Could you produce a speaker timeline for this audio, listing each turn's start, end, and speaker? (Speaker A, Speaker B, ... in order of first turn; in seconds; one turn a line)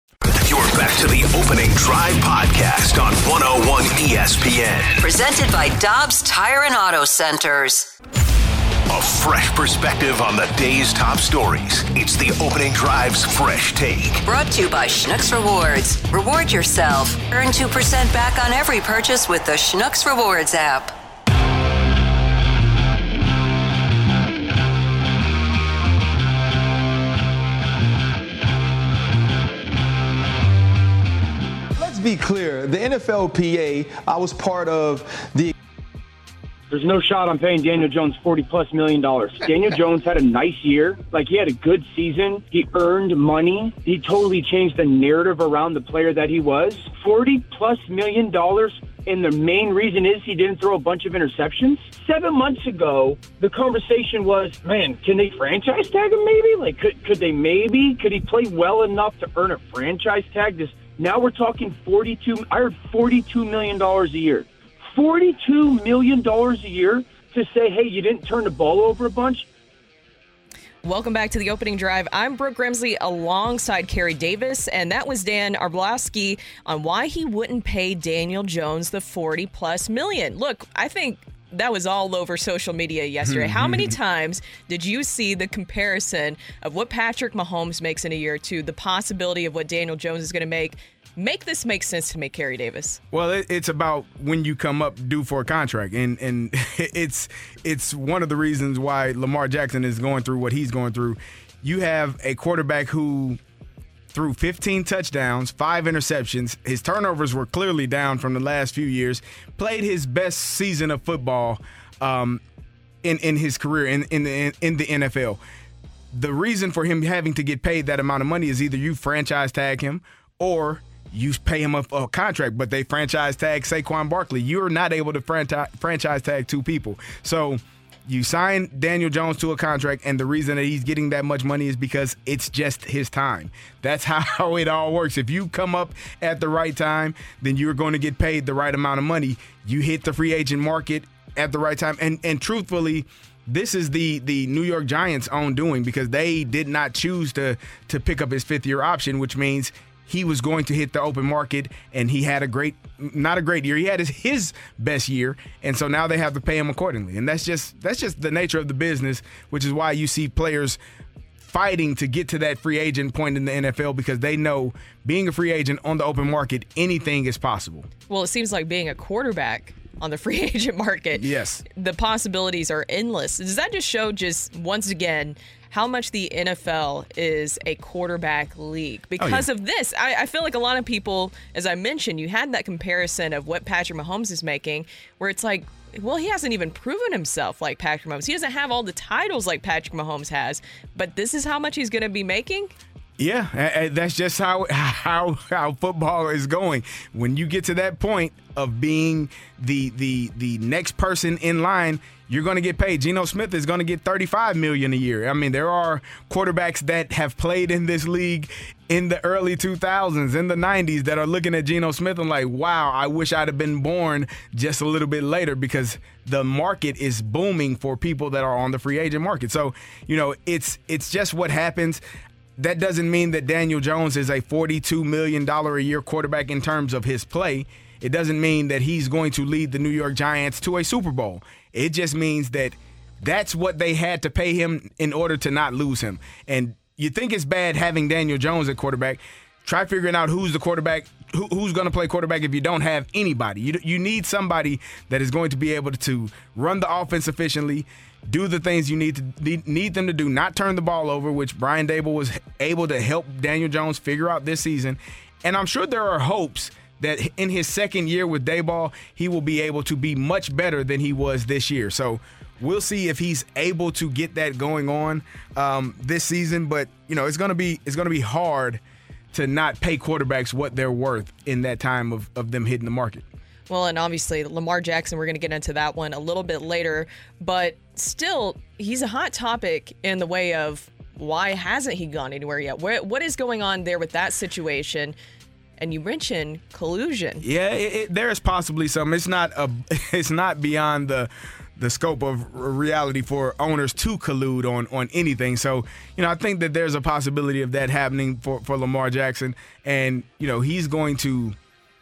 Speaker A: 0.3-5.0
Speaker B: 5.0-7.9
Speaker A: 8.9-14.2
Speaker B: 14.2-20.9
Speaker C: 31.8-35.5
Speaker D: 36.7-69.5
Speaker E: 70.8-93.0
Speaker F: 83.2-84.0
Speaker F: 93.1-103.4
Speaker F: 104.1-112.4
Speaker F: 113.0-115.4
Speaker F: 116.1-160.8
Speaker F: 161.4-167.9
Speaker E: 168.1-192.7
Speaker F: 171.1-171.6
Speaker F: 179.2-179.5
Speaker F: 193.2-222.0
Speaker F: 222.6-268.8
Speaker F: 269.3-273.2
Speaker E: 273.7-285.1
Speaker E: 285.8-287.4
Speaker F: 287.4-301.6